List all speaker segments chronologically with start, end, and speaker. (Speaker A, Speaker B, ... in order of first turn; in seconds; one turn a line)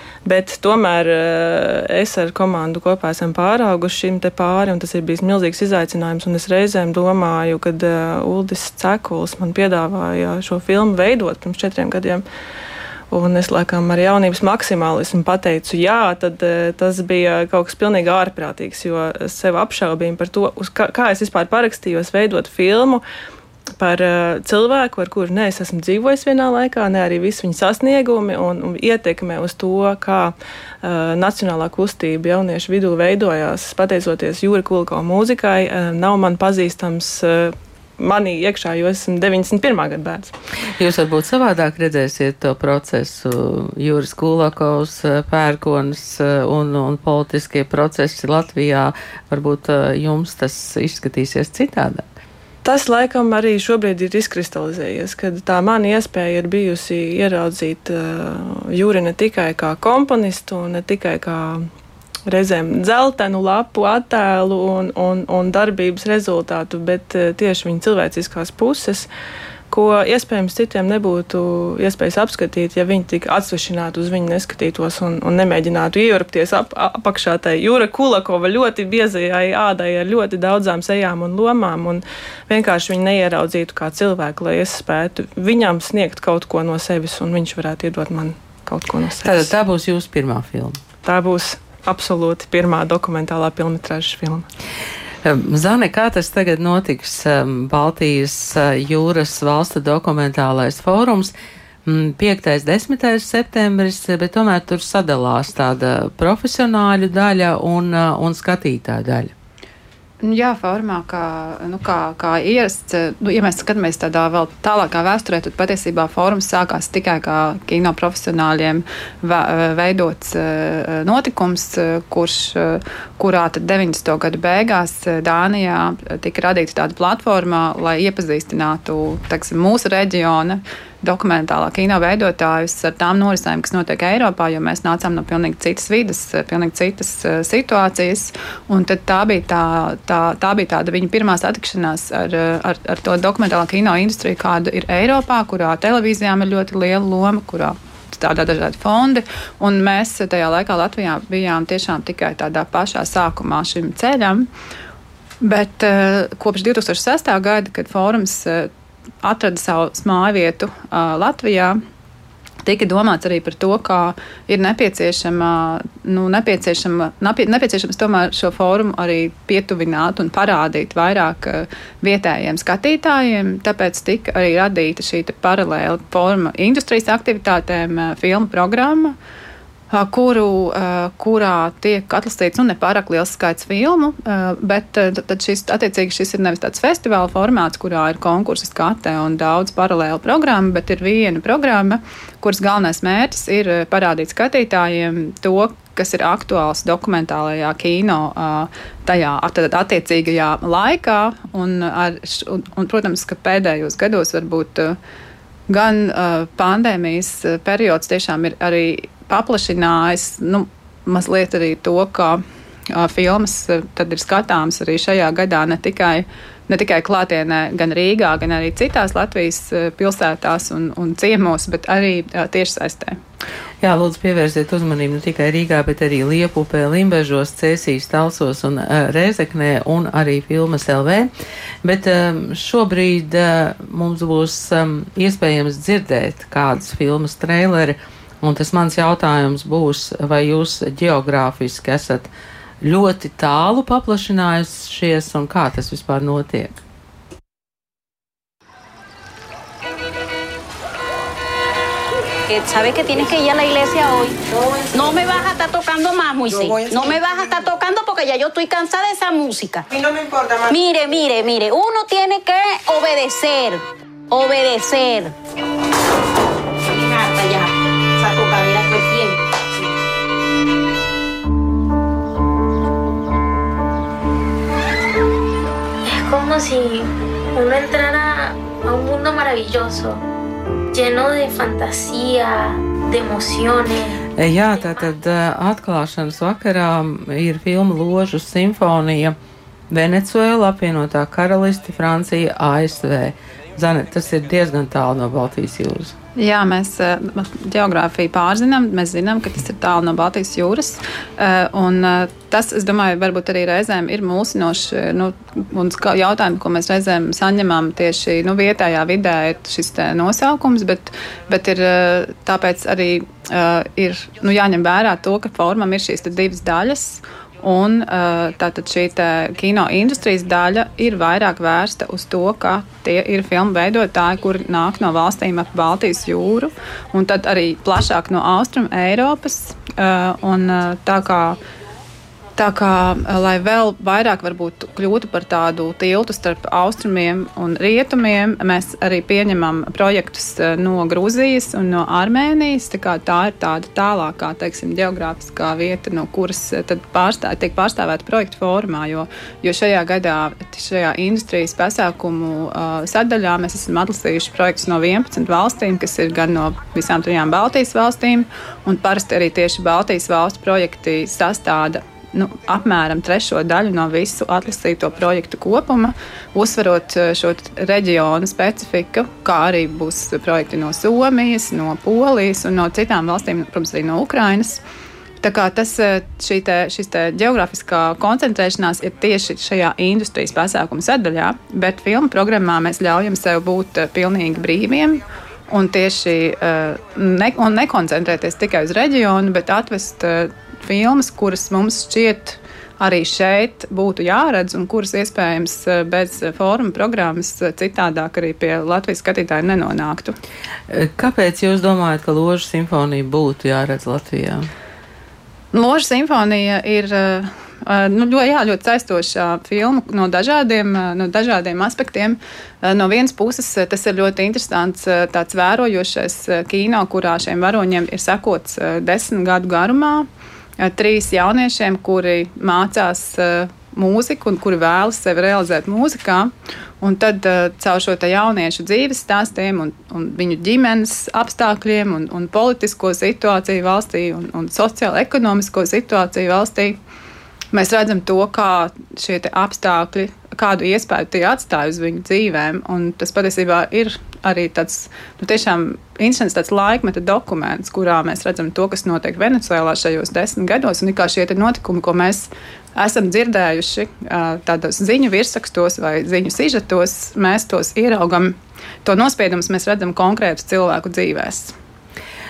Speaker A: 0.2-12.2
Speaker A: 13.1-23.0
Speaker A: 23.8-40.3
Speaker B: 40.8-52.0
Speaker A: 52.6-61.7
Speaker A: 62.3-69.1
Speaker A: 69.7-89.5
Speaker B: 89.2-90.8
Speaker A: 91.0-94.5
Speaker B: 95.2-101.3
Speaker B: 101.9-109.3
Speaker C: 110.2-154.5
Speaker C: 155.4-158.7
Speaker C: 159.2-161.8
Speaker C: 162.6-179.2
Speaker C: 179.9-205.0
Speaker C: 205.7-223.2
Speaker B: 223.8-231.3
Speaker B: 231.8-242.3
Speaker B: 242.8-246.8
Speaker D: 252.5-254.4
Speaker E: 254.5-255.0
Speaker D: 254.9-259.9
Speaker E: 256.5-257.2
Speaker E: 259.9-260.7
Speaker D: 260.7-265.3
Speaker D: 266.9-269.4
Speaker F: 276.1-280.2
Speaker F: 280.9-284.2
Speaker B: 284.4-289.4
Speaker B: 289.9-296.1
Speaker C: 296.4-331.6
Speaker C: 332.6-374.8
Speaker C: 375.4-400.4
Speaker B: 400.9-404.7
Speaker C: 405.7-420.3
Speaker C: 420.8-437.0
Speaker C: 437.7-461.7